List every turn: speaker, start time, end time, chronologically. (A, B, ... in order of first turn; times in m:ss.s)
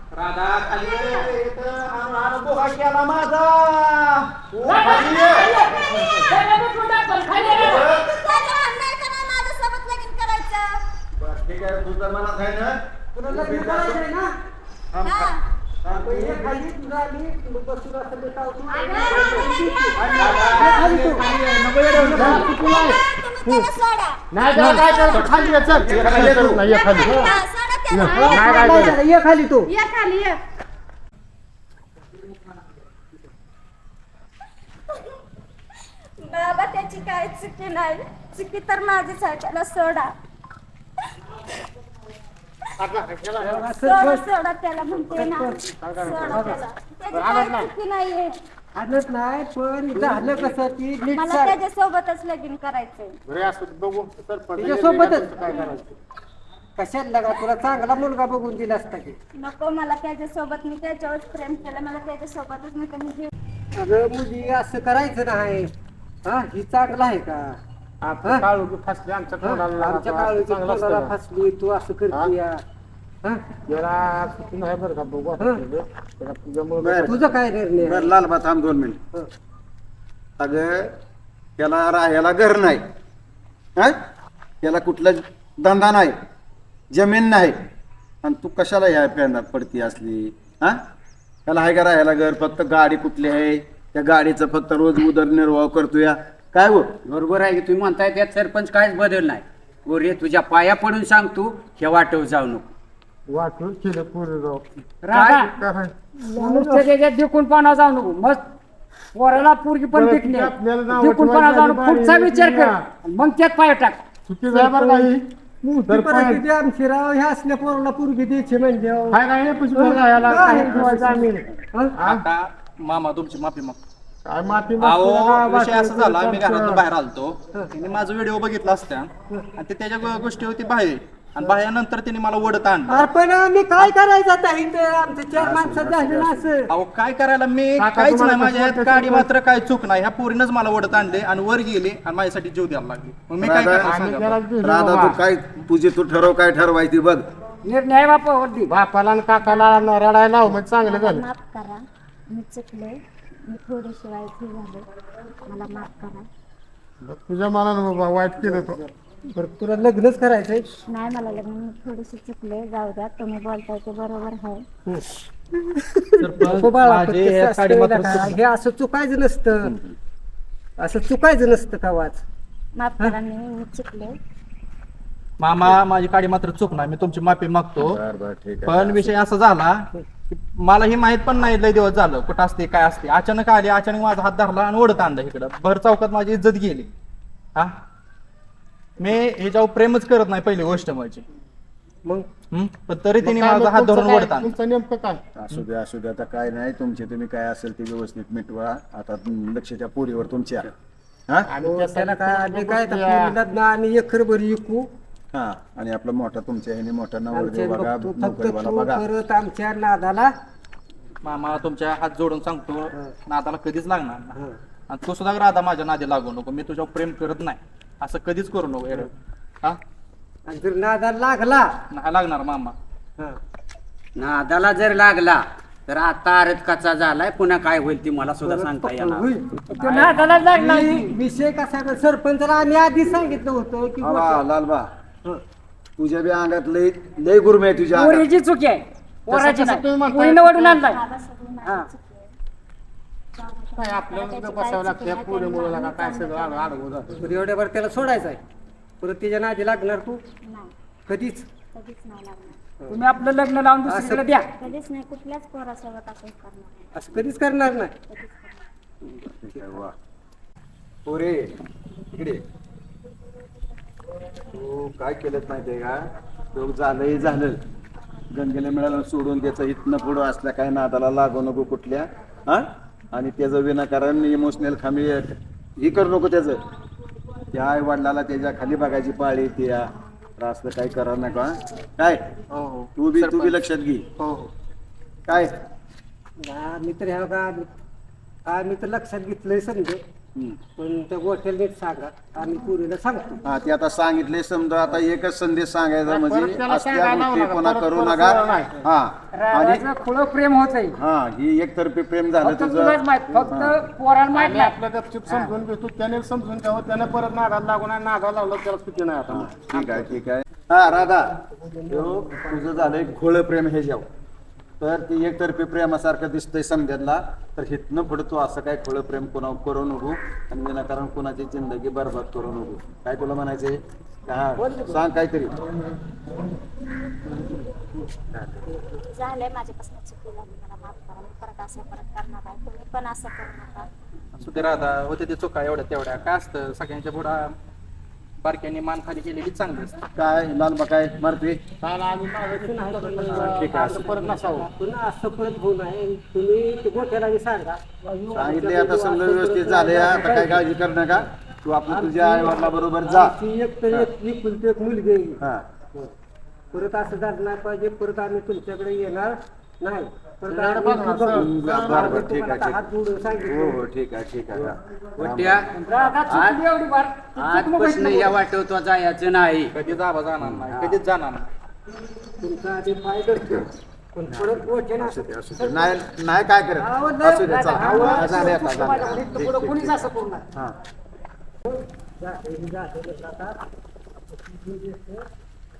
0:00.1-0:04.9 A
0:00.9-0:01.3 B
0:04.5-0:05.5 C
0:04.7-0:07.9 D
0:07.4-0:10.8 B
0:07.5-0:08.1 C
0:11.2-0:14.0 C
0:13.1-0:14.4 E
0:14.9-0:16.5 C
0:15.0-0:15.4 B
0:15.8-0:21.3 E
0:18.7-0:20.8 B
0:19.1-0:19.5 F
0:20.0-0:21.3 C
0:20.3-0:22.5 A
0:22.0-0:22.5 E
0:22.0-0:23.6 F
0:22.3-0:25.9 B
0:24.3-0:27.2 F
0:25.8-0:26.6 C
0:25.9-0:26.4 A
0:26.7-0:29.0 B
0:27.0-0:27.4 E
0:27.9-0:29.0 F
0:28.1-0:29.7 E
0:29.7-0:30.4 B
0:36.2-0:40.2 B
0:42.8-0:43.6 F
0:43.4-0:44.3 E
0:43.8-0:48.4 B
0:45.0-0:45.6 E
0:45.8-0:46.6 F
0:46.3-0:46.6 E
0:47.1-0:47.7 F
0:48.8-0:51.6 E
0:50.0-0:50.5 F
0:51.1-0:53.2 B
0:53.3-0:56.0 F
0:54.6-0:55.8 E
0:56.8-0:59.2 E
0:59.4-1:03.3 B
1:03.8-1:05.7 E
1:06.2-1:07.6 E
1:08.0-1:11.2 F
1:09.4-1:12.6 E
1:13.7-1:17.4 F
1:15.4-1:15.6 E
1:16.8-1:17.2 C
1:17.1-1:18.2 E
1:17.8-1:19.0 C
1:20.4-1:21.0 C
1:21.6-1:22.8 C
1:24.6-1:26.2 C
1:26.9-1:27.6 C
1:28.2-1:30.8 C
1:31.5-1:36.9 C
1:37.1-1:42.7 G
1:43.3-1:46.7 F
1:45.0-1:45.5 D
1:46.3-1:46.9 E
1:46.4-1:48.4 D
1:49.1-1:54.0 D
1:49.9-1:52.8 F
1:54.3-1:55.3 F
1:54.5-1:59.2 E
1:55.8-1:56.4 F
1:59.1-2:02.2 F
1:59.7-2:02.0 E
2:02.0-2:03.8 A
2:04.2-2:06.8 F
2:04.8-2:13.1 A
2:12.9-2:16.7 E
2:15.4-2:16.5 C
2:16.7-2:24.4 A
2:17.8-2:19.3 F
2:23.4-2:24.0 C
2:23.8-2:25.2 F
2:24.6-2:27.2 C
2:27.6-2:28.7 D
2:28.7-2:31.2 F
2:29.5-2:29.8 B
2:30.8-2:34.9 B
2:35.5-2:36.3 B
2:37.0-2:38.8 F
2:38.4-2:40.7 E
2:40.9-2:44.6 B
2:44.9-2:49.7 E
2:46.2-2:48.4 A
2:49.6-2:50.0 C
2:50.8-2:52.2 E
2:52.8-2:54.2 B
2:55.4-2:58.0 A
2:57.8-2:59.2 C
2:58.7-3:06.9 A
3:09.0-3:11.2 A
3:12.5-3:14.5 A
3:13.2-3:15.2 F
3:15.4-3:20.7 C
3:21.5-3:23.4 F
3:21.6-3:24.9 E
3:25.3-3:29.0 C
3:27.3-3:30.3 E
3:31.2-3:34.4 A
3:34.9-3:39.1 A
3:40.5-3:41.7 E
3:41.9-3:42.8 A
3:44.2-3:49.3 G
3:48.4-3:54.4 E
3:49.8-3:51.1 D
3:54.0-3:54.9 C
3:56.0-3:58.3 C
3:57.9-4:01.0 D
3:59.3-4:00.8 F
4:00.7-4:02.3 B
4:01.6-4:01.9 E
4:03.4-4:06.8 B
4:03.8-4:07.3 F
4:07.2-4:08.4 E
4:09.0-4:10.2 E
4:10.4-4:10.7 B
4:11.1-4:11.5 E
4:11.7-4:12.6 B
4:12.9-4:14.5 D
4:13.8-4:14.4 E
4:14.5-4:17.0 B
4:16.9-4:17.9 E
4:18.1-4:18.6 B
4:19.4-4:19.9 C
4:21.1-4:21.6 C
4:22.1-4:22.4 C
4:24.5-4:26.0 C
4:26.5-4:27.6 C
4:28.3-4:36.6 C
4:37.5-4:39.8 C
4:40.4-4:42.2 C
4:42.5-4:43.6 A
4:43.0-4:44.1 C
4:44.2-4:44.5 A
4:45.3-4:45.6 C
4:46.4-4:47.7 E
4:48.5-4:50.0 E
4:50.8-4:53.4 E
4:53.4-4:59.9 C
4:56.1-4:58.7 F
4:59.4-5:01.0 D
5:00.9-5:03.8 C
5:02.4-5:04.8 D
5:04.3-5:09.9 F
5:09.3-5:11.3 C
5:11.6-5:13.0 E
5:11.9-5:14.1 C
5:14.8-5:25.5 C
5:24.6-5:25.0 E
5:28.3-5:28.7 C
5:28.7-5:29.0 E
5:29.1-5:33.9 B
5:34.4-5:37.6 A
5:38.4-5:40.0 A
5:40.2-5:41.6 C
5:41.8-5:44.7 F
5:42.5-5:50.6 E
5:43.5-5:44.0 C
5:48.3-5:53.4 C
5:51.9-5:55.4 E
5:56.7-6:03.9 E
6:00.5-6:02.2 F
6:01.3-6:02.8 C
6:03.4-6:05.7 C
6:05.2-6:06.6 G
6:05.8-6:08.4 D
6:07.4-6:09.7 G
6:09.7-6:11.5 A
6:10.7-6:11.0 G
6:12.4-6:16.0 E
6:14.3-6:20.8 C
6:16.8-6:18.6 E
6:17.3-6:20.4 D
6:21.6-6:23.6 E
6:24.3-6:25.3 E